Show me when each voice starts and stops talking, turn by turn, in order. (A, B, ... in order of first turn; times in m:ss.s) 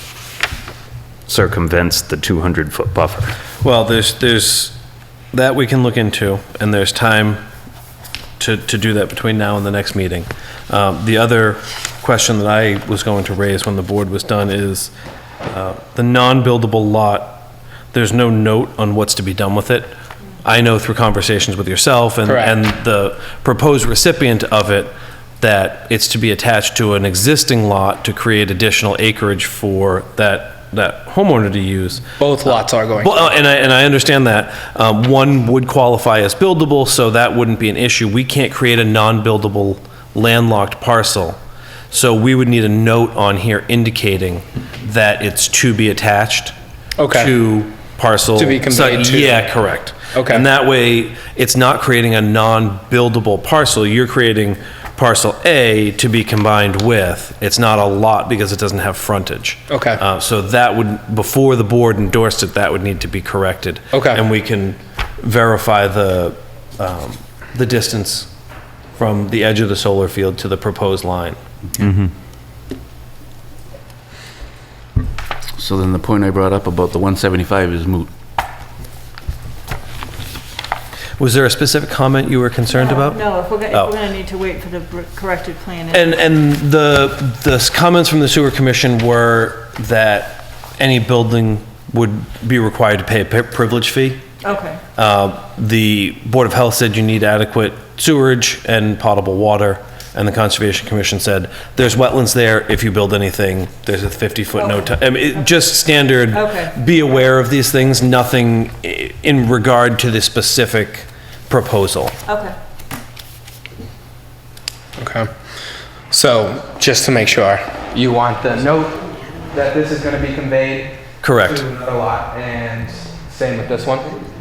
0:01.3-0:03.4 A
0:03.6-0:04.8 B
0:05.3-0:07.4 B
0:08.4-0:14.9 B
0:15.5-0:19.9 B
0:20.4-0:32.1 B
0:22.2-0:22.5 C
0:32.2-0:33.3 C
0:33.0-0:41.4 B
0:41.9-0:46.5 B
0:47.0-0:47.3 C
0:47.1-1:08.3 B
0:48.4-0:50.4 C
0:59.7-1:00.0 C
1:03.9-1:04.2 C
1:08.9-1:11.4 B
1:11.8-1:12.1 A
1:15.6-1:18.1 D
1:21.2-1:23.9 B
1:22.7-1:26.2 E
1:25.9-1:34.2 B
1:34.4-1:34.8 E
1:35.0-1:52.2 B
1:44.6-1:45.6 E
1:46.3-1:46.8 E
1:52.3-1:52.5 E
1:55.0-1:55.3 C
1:56.1-1:59.0 C
1:59.5-2:04.2 C
2:01.2-2:01.6 B